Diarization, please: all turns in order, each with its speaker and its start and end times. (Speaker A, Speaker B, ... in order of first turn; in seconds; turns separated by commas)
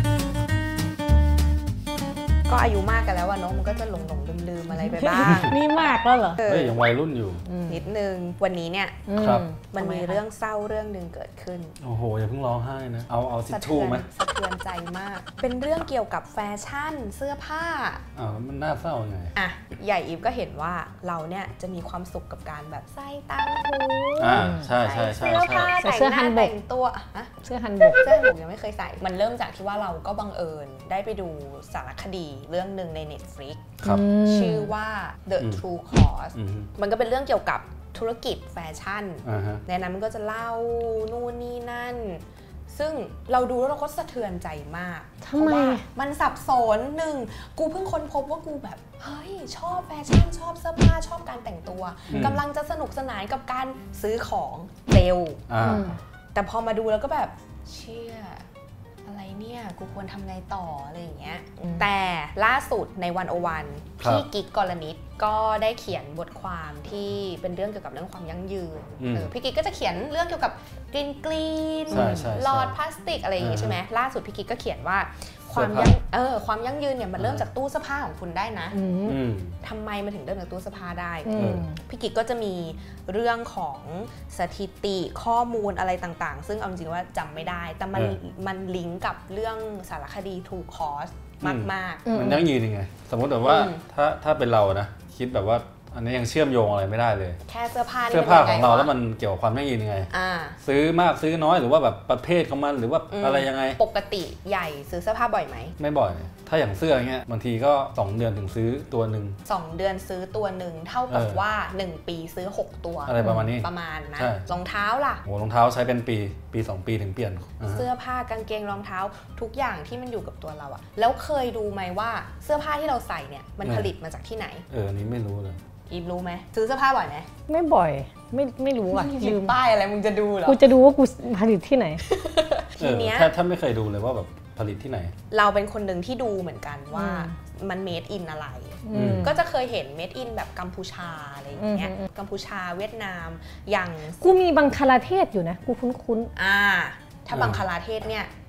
Speaker A: 2.5-5.6, Speaker B: 4.7-6.4, Speaker A: 6.4-6.8, Speaker C: 6.4-7.4, Speaker B: 7.5-7.9, Speaker A: 7.7-9.0, Speaker B: 9.1-10.2, Speaker C: 9.2-9.4, Speaker A: 9.7-11.7, Speaker C: 11.8-14.1, Speaker A: 13.5-18.0, Speaker C: 18.1-19.3, Speaker A: 19.3-27.3, Speaker C: 24.2-25.8, Speaker B: 24.3-24.7, Speaker B: 25.8-26.5, Speaker B: 27.4-28.0, Speaker A: 28.0-58.4, Speaker B: 33.8-34.7, Speaker C: 36.3-36.7, Speaker C: 39.2-39.6, Speaker B: 45.2-45.8, Speaker C: 52.1-52.4, Speaker C: 55.5-55.9, Speaker B: 55.6-56.0, Speaker A: 59.0-78.8, Speaker C: 64.0-64.2, Speaker C: 69.0-69.3, Speaker C: 71.9-72.8, Speaker B: 71.9-72.3, Speaker C: 73.4-73.8, Speaker C: 75.5-76.0, Speaker C: 77.2-77.4, Speaker B: 78.7-79.2, Speaker C: 79.1-79.6, Speaker A: 79.6-92.0, Speaker B: 81.2-81.8, Speaker C: 81.3-81.7, Speaker C: 91.4-97.4, Speaker B: 92.0-92.5, Speaker A: 93.4-93.8, Speaker A: 97.4-98.9, Speaker C: 98.1-100.1, Speaker A: 100.1-100.6, Speaker C: 100.6-103.8, Speaker A: 103.1-105.7, Speaker C: 105.8-109.4, Speaker A: 109.4-115.2, Speaker C: 111.1-111.4, Speaker C: 113.1-114.5, Speaker C: 115.2-117.8, Speaker A: 117.7-124.6, Speaker C: 123.6-123.9, Speaker C: 124.7-125.6, Speaker A: 125.9-127.3, Speaker B: 127.5-129.5, Speaker A: 128.9-130.6, Speaker B: 130.4-132.0, Speaker A: 132.0-133.3, Speaker C: 132.8-135.1, Speaker A: 135.3-144.3, Speaker B: 136.9-137.3, Speaker B: 138.8-139.4, Speaker C: 138.9-139.3, Speaker B: 141.6-142.1, Speaker B: 144.2-146.3, Speaker A: 146.3-148.3, Speaker C: 147.3-147.6